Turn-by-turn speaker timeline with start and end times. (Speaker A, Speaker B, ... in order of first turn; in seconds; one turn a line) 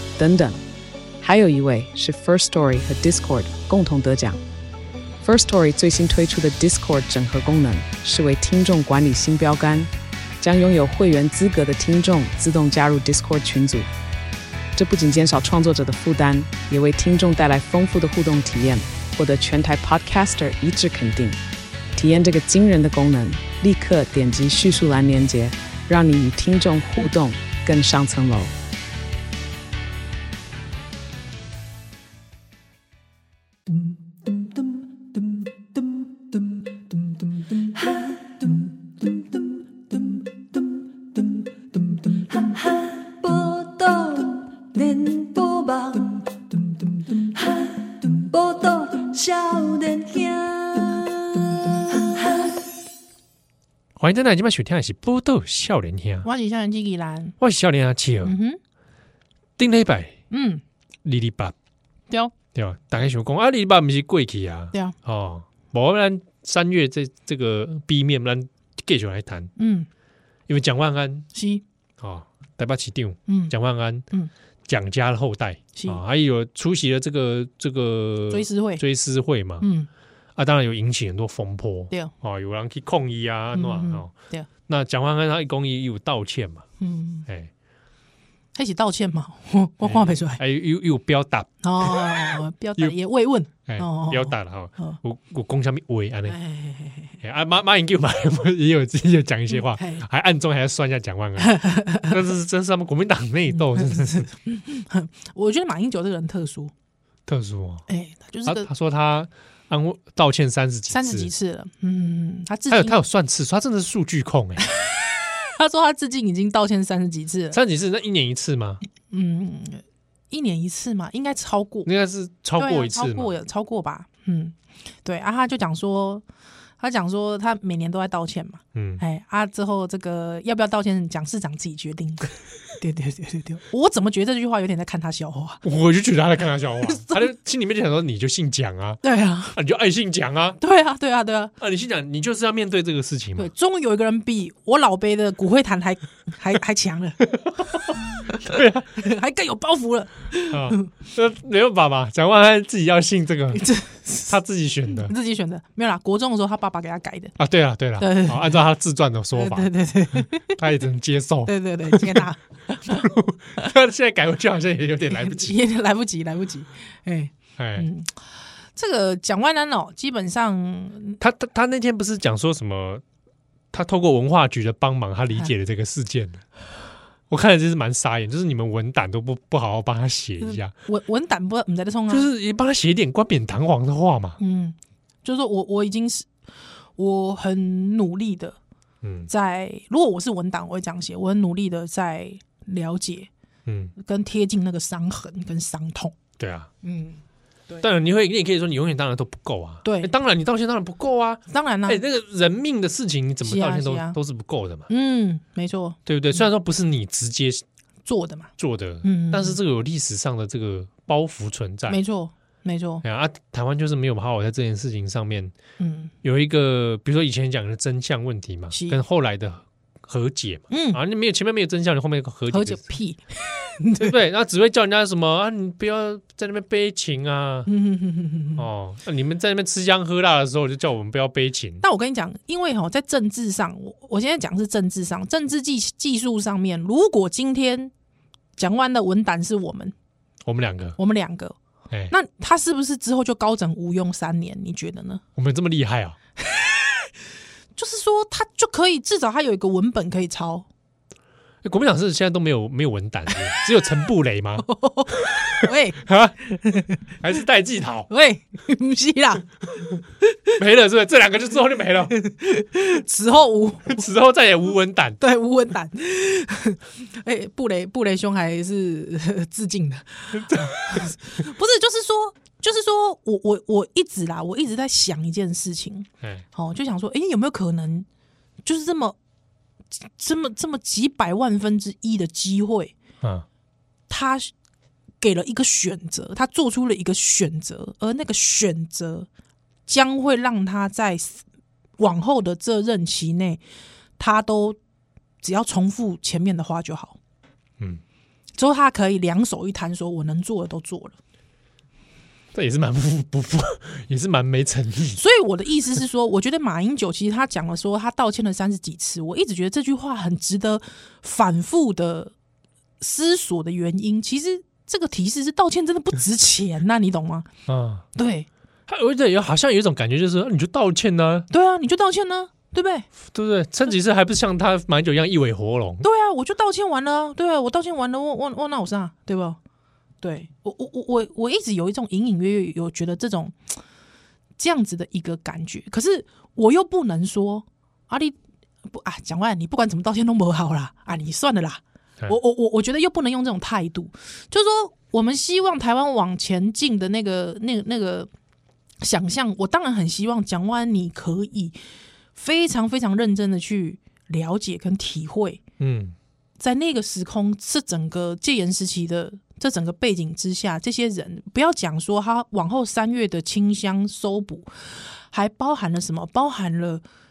Speaker A: 0.2-0.6
Speaker A: 1.2-4.4
Speaker A: 5.2-13.9
Speaker A: 14.8-21.4
Speaker A: 21.9-28.5
Speaker B: 42.1-46.3
Speaker B: 47.2-52.5
Speaker C: 54.0-56.3
Speaker D: 56.2-57.3
Speaker C: 57.4-58.4
Speaker D: 58.2-58.6
Speaker C: 59.6-60.2
Speaker D: 60.3-60.6
Speaker C: 61.0-61.5
Speaker C: 62.5-69.5
Speaker D: 69.6-69.9
Speaker C: 70.5-71.3
Speaker D: 71.3-71.6
Speaker C: 72.0-74.0
Speaker D: 73.3-73.5
Speaker C: 74.7-79.7
Speaker D: 75.7-76.0
Speaker D: 78.3-78.8
Speaker D: 79.6-79.9
Speaker C: 80.4-84.1
Speaker D: 83.5-84.5
Speaker C: 84.7-86.7
Speaker D: 86.8-87.3
Speaker D: 88.5-90.4
Speaker C: 89.8-93.0
Speaker D: 91.6-95.0
Speaker C: 93.7-96.4
Speaker D: 96.3-97.2
Speaker C: 97.2-104.2
Speaker D: 99.5-100.0
Speaker D: 101.4-102.1
Speaker D: 103.5-106.7
Speaker C: 107.3-107.8
Speaker D: 107.9-108.7
Speaker C: 108.5-111.3
Speaker D: 110.9-113.0
Speaker C: 112.7-114.7
Speaker D: 114.8-117.6
Speaker C: 117.5-118.8
Speaker D: 119.1-121.9
Speaker C: 121.9-123.3
Speaker D: 122.6-126.2
Speaker D: 126.8-135.6
Speaker C: 128.7-129.0
Speaker C: 135.6-139.0
Speaker D: 136.8-137.3
Speaker D: 139.0-139.6
Speaker C: 139.5-140.6
Speaker D: 140.6-141.5
Speaker C: 141.6-143.5
Speaker D: 143.3-150.9
Speaker C: 148.3-148.9
Speaker C: 150.5-153.6
Speaker D: 153.5-154.4
Speaker C: 154.3-155.1
Speaker D: 154.9-157.3
Speaker C: 157.4-162.3
Speaker D: 158.0-158.6
Speaker D: 159.3-160.6
Speaker D: 161.4-163.1
Speaker C: 162.9-165.6
Speaker D: 165.1-168.1
Speaker C: 167.6-167.9
Speaker D: 168.8-171.2
Speaker C: 171.2-173.0
Speaker C: 173.7-176.4
Speaker C: 177.3-180.7
Speaker D: 180.4-182.3
Speaker C: 182.1-184.4
Speaker D: 184.4-186.3
Speaker D: 187.0-188.6
Speaker C: 189.0-189.3
Speaker D: 189.3-193.3
Speaker C: 193.7-193.9
Speaker D: 194.0-196.1
Speaker C: 196.4-196.7
Speaker D: 196.8-197.9
Speaker C: 197.8-204.9
Speaker D: 199.8-200.1
Speaker D: 201.5-202.0
Speaker D: 203.4-204.2
Speaker D: 204.9-206.4
Speaker C: 206.1-207.6
Speaker D: 208.1-208.5
Speaker C: 208.6-212.0
Speaker D: 209.0-209.6
Speaker D: 211.9-213.0
Speaker C: 213.0-215.5
Speaker D: 215.8-216.1
Speaker C: 216.2-222.9
Speaker D: 218.7-219.0
Speaker D: 220.7-221.0
Speaker D: 222.5-224.2
Speaker C: 224.0-227.7
Speaker D: 227.7-228.6
Speaker C: 228.6-231.8
Speaker D: 231.8-237.9
Speaker D: 238.6-239.9
Speaker C: 240.4-241.0
Speaker D: 241.0-241.6
Speaker D: 242.1-245.2
Speaker C: 245.3-246.2
Speaker D: 246.4-247.1
Speaker D: 247.8-250.7
Speaker C: 251.6-254.7
Speaker D: 254.6-257.0
Speaker C: 255.2-256.4
Speaker C: 257.2-258.1
Speaker D: 258.1-259.5
Speaker D: 260.2-260.5
Speaker C: 260.6-262.1
Speaker D: 262.1-264.1
Speaker C: 263.9-265.2
Speaker D: 265.2-278.1
Speaker C: 270.3-271.1
Speaker D: 278.6-279.2
Speaker D: 280.0-282.9
Speaker D: 284.1-284.5
Speaker D: 285.2-289.3
Speaker D: 289.9-291.4
Speaker D: 292.0-293.6
Speaker D: 294.2-294.8
Speaker D: 295.4-297.2
Speaker D: 298.6-301.2
Speaker C: 302.5-305.2
Speaker D: 305.2-312.3
Speaker D: 313.0-317.5
Speaker C: 317.7-318.0
Speaker D: 318.1-318.5
Speaker C: 318.9-321.5
Speaker D: 321.5-323.1
Speaker C: 323.2-326.1
Speaker D: 326.0-329.6
Speaker D: 330.2-333.8
Speaker D: 334.6-348.3
Speaker D: 349.0-351.8
Speaker D: 352.4-355.6
Speaker C: 355.8-356.2
Speaker D: 356.6-367.0